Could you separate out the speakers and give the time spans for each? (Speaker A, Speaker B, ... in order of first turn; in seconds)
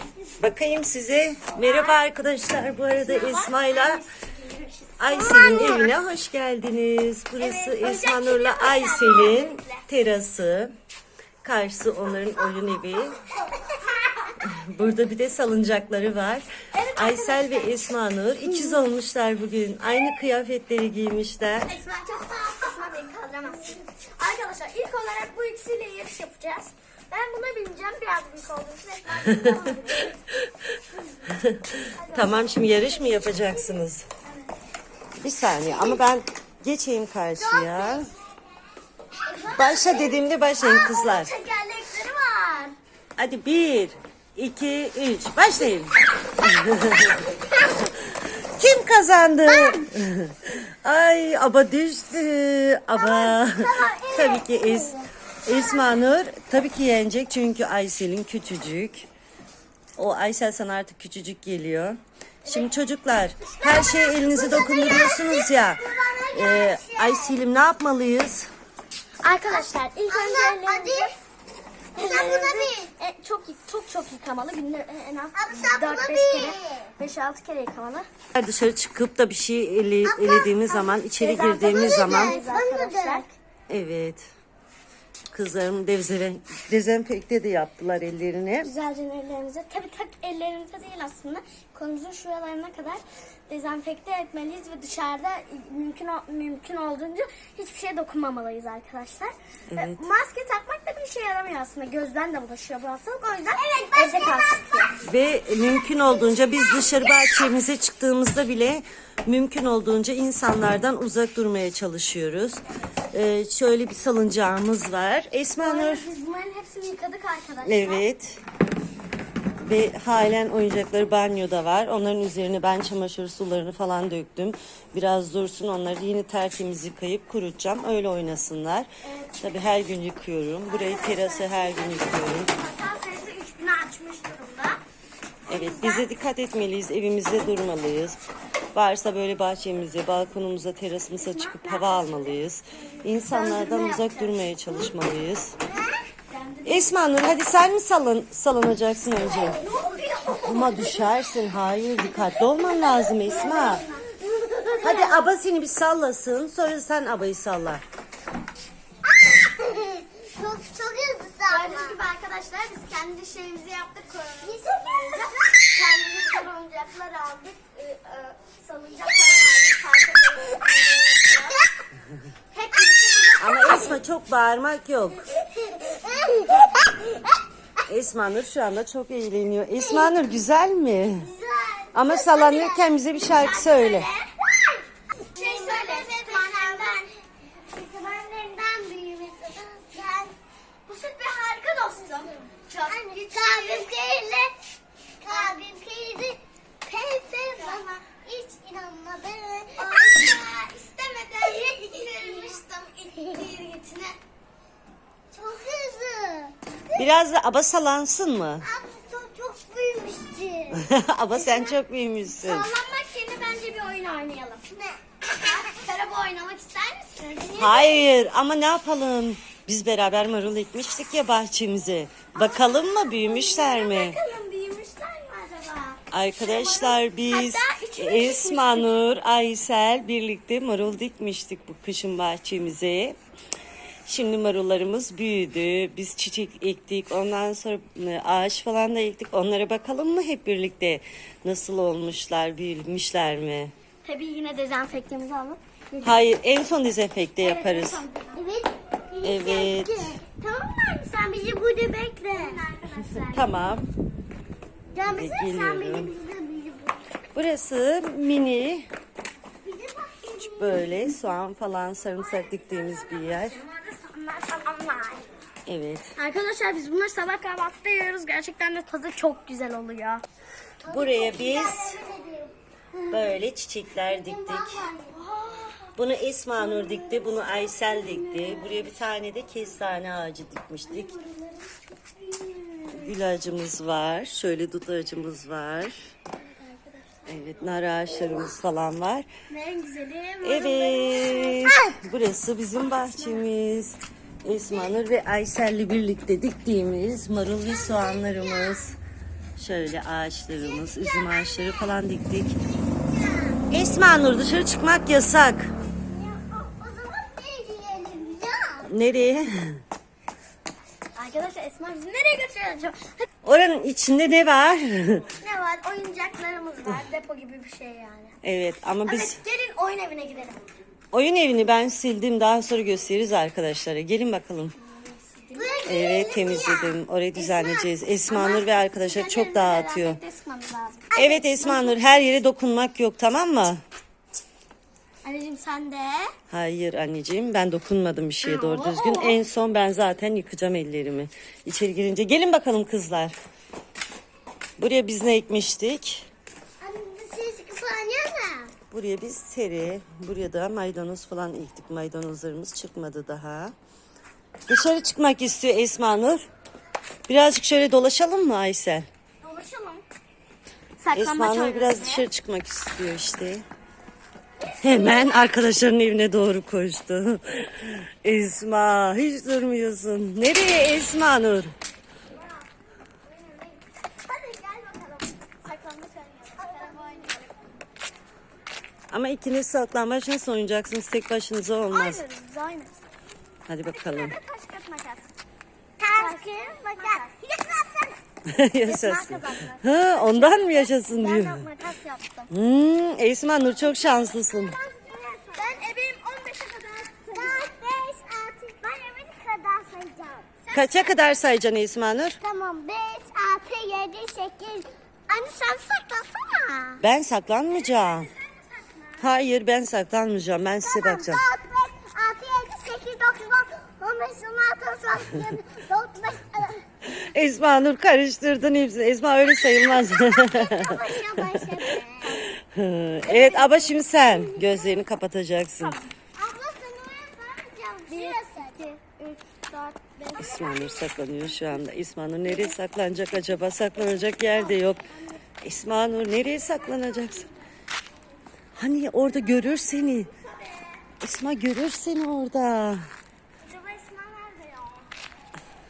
Speaker A: 0.4-4.0, 5.0-10.7, 11.4-13.2, 14.4-21.7, 31.3-34.1, 35.2-38.1, 39.5-41.3, 43.2-47.3, 48.0-59.1, 60.0-68.5, 78.3-82.4, 83.7-84.3, 85.3-88.7, 99.7-100.0, 105.0-116.1, 117.7-118.4, 119.6-128.9, 129.4-132.5, 135.5-138.2, 138.7-145.6, 146.7-149.6, 150.3-153.8, 154.8-157.8, 173.4-175.3, 177.9-181.3, 181.9-184.1, 207.0-208.7, 210.7-212.7, 217.6-224.2, 226.1-233.2, 234.1-243.7, 246.0-248.0, 249.2-250.2, 252.9-253.9, 255.1-256.1, 257.4-258.9, 260.3-263.6, 265.7-266.1, 270.9-272.0, 273.1-274.9, 276.0-281.1, 282.9-286.1, 287.3-289.3, 290.4-299.0, 299.6-302.6, 303.7-305.7, 308.9-309.8, 313.4-315.2, 318.4-319.4, 321.1-324.8, 325.9-330.2, 331.1-333.8, 336.5-343.4, 344.8-346.3, 348.9-353.7, 354.7-356.4, 357.3-359.1, 361.1-363.6, 364.8-371.7, 379.1-382.2, 383.7-384.3, 388.5-391.7, 392.5-394.8, 400.7-402.4, 407.0-408.3, 409.2-411.4, 417.0-421.8, 422.3-426.0, 430.4-435.1, 435.6-437.5, 438.8-440.3, 441.2-443.1
Speaker B: 1.5-2.0, 3.0-5.9, 7.4-9.8, 16.7-17.7, 18.5-18.8, 21.6-30.2, 31.9-33.8, 39.3-42.8, 49.5-49.8, 53.1-54.6, 62.5-62.8, 69.2-71.1, 72.0-78.1, 81.0-83.3, 88.6-105.0, 115.6-118.0, 129.0-129.5, 130.7-134.8, 135.5-136.1, 141.1-142.4, 143.2-144.9, 146.3-147.0, 149.3-151.1, 152.0-155.2, 161.5-171.6, 172.5-174.0, 183.1-184.3, 185.3-187.0, 190.9-193.9, 195.3-195.6, 197.6-197.9, 199.8-204.2, 212.4-214.6, 215.3-218.1, 222.3-229.0, 244.0-246.3, 247.4-248.4, 250.5-250.9, 252.3-253.8, 262.2-265.3, 266.2-270.2, 275.1-275.9, 276.6-278.9, 280.9-283.1, 286.4-287.2, 289.5-291.7, 292.8-293.4, 311.1-313.3, 315.4-318.4, 319.1-320.6, 324.8-325.8, 327.4-331.1, 335.2-336.3, 338.4-339.4, 359.4-360.0, 361.0-362.3, 364.6-365.4, 373.4-373.7, 374.3-377.6, 381.9-382.9, 383.9-385.3, 386.1-387.4, 388.9-392.5, 393.9-397.7, 400.7-401.0, 407.8-409.2, 423.2-423.7, 424.5-424.8, 425.8-426.1, 428.1-431.0, 440.2-441.0, 443.6-445.1
Speaker C: 37.4-38.2, 54.6-54.9, 63.6-67.4, 69.5-71.1, 72.0-72.9, 75.3-76.9, 80.0-80.9, 81.6-83.3, 103.7-105.0, 145.6-146.1, 152.9-154.8, 159.1-162.0, 164.4-165.5, 175.4-177.3, 179.8-180.2, 181.2-182.9, 185.3-187.1, 187.7-190.3, 192.9-194.5, 195.2-200.4, 201.4-202.6, 205.3-207.1, 208.6-210.9, 214.7-215.0, 248.3-252.6, 254.9-257.0, 259.6-261.0, 270.8-273.4, 273.9-275.2, 291.6-291.9, 297.9-298.8, 300.6-301.9, 302.9-303.6, 306.1-308.9, 325.6-327.0, 331.1-332.3, 346.8-348.7, 376.6-377.4, 386.0-388.2, 395.6-395.9, 397.3-401.1, 402.4-407.0, 410.8-416.8, 419.8-422.5, 423.6-424.7, 426.4-428.9